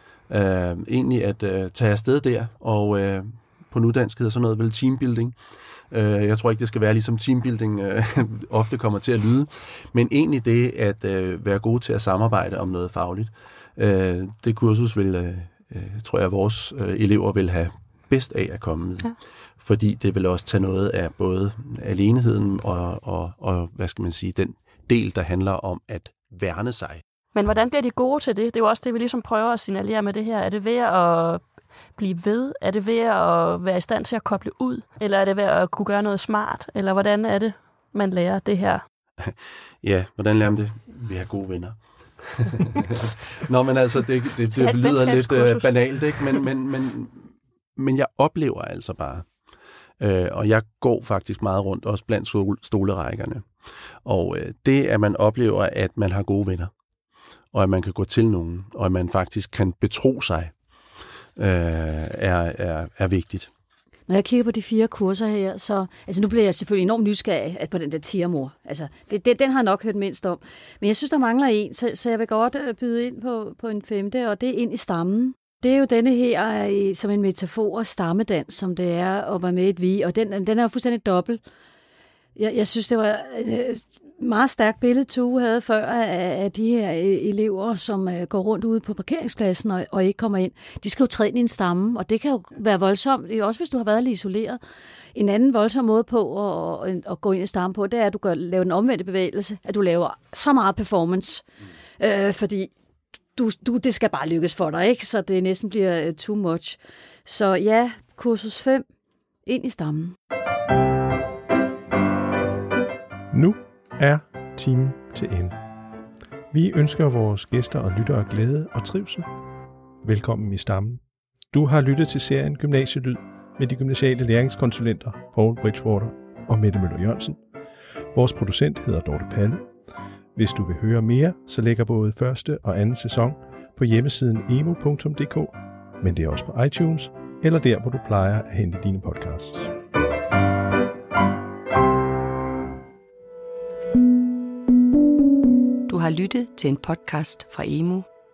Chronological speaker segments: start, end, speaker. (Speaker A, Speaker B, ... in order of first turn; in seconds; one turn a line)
Speaker A: 0.3-5.3
Speaker A: 5.9-27.0
Speaker B: 27.3-31.4
Speaker B: 31.9-38.8
Speaker A: 39.2-49.2
Speaker B: 44.5-46.4
Speaker A: 50.0-53.4
Speaker A: 54.0-56.7
Speaker A: 57.5-60.5
Speaker A: 61.4-63.5
Speaker C: 64.1-81.4
Speaker C: 82.3-94.6
Speaker C: 95.1-101.4
Speaker C: 102.0-102.7
Speaker C: 103.3-108.8
Speaker C: 109.5-110.1
Speaker D: 113.3-115.5
Speaker D: 116.5-119.3
Speaker D: 120.0-121.0
Speaker D: 121.5-127.4
Speaker D: 128.1-129.6
Speaker D: 130.3-139.7
Speaker E: 145.9-148.1